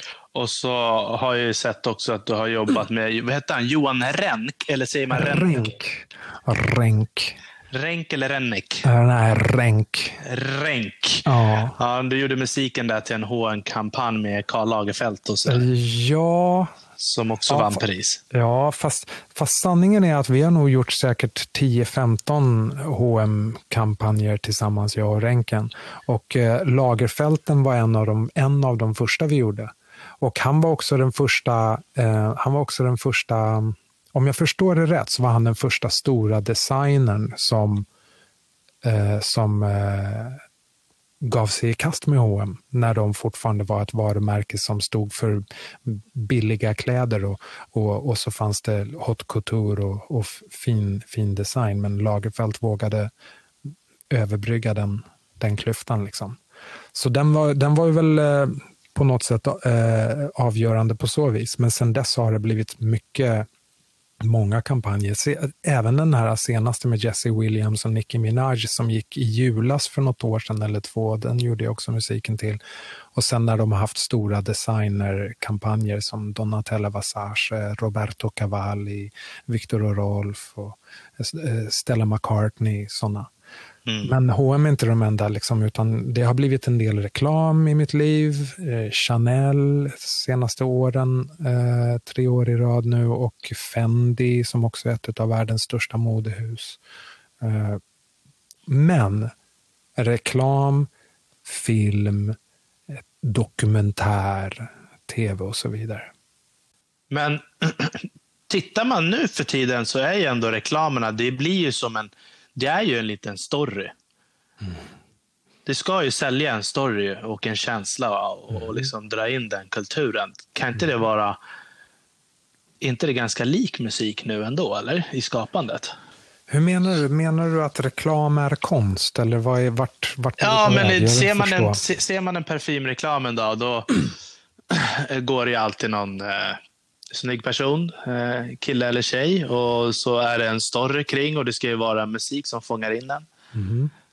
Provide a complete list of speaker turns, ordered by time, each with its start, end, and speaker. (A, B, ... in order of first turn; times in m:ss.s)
0:00.3-0:05.7 A
0:05.1-0:07.4 B
0:07.7-0:08.9 A
0:08.8-0:10.2 B
0:10.2-0:15.7 A
0:11.2-0:11.8 B
0:15.4-0:16.7 B
0:17.0-0:18.2 A
0:17.5-0:37.9 B
0:38.8-0:40.4 B
0:41.2-0:53.1 B
0:54.1-0:56.4 B
0:56.9-1:03.5 B
1:04.2-1:12.6 B
1:13.1-1:23.3 B
1:23.9-1:24.1 A
1:24.0-1:36.8 B
1:37.4-1:37.8 B
1:38.7-1:39.3 B
1:40.0-1:40.9 B
1:41.4-1:42.4 B
1:42.9-1:46.1 B
1:47.1-1:53.9 A
1:55.6-2:01.4 A
2:02.8-2:05.9 A
2:06.5-2:11.8 B
2:10.4-2:14.0 A
2:14.7-2:16.6 A
2:17.1-2:23.2 A
2:23.5-2:23.9 B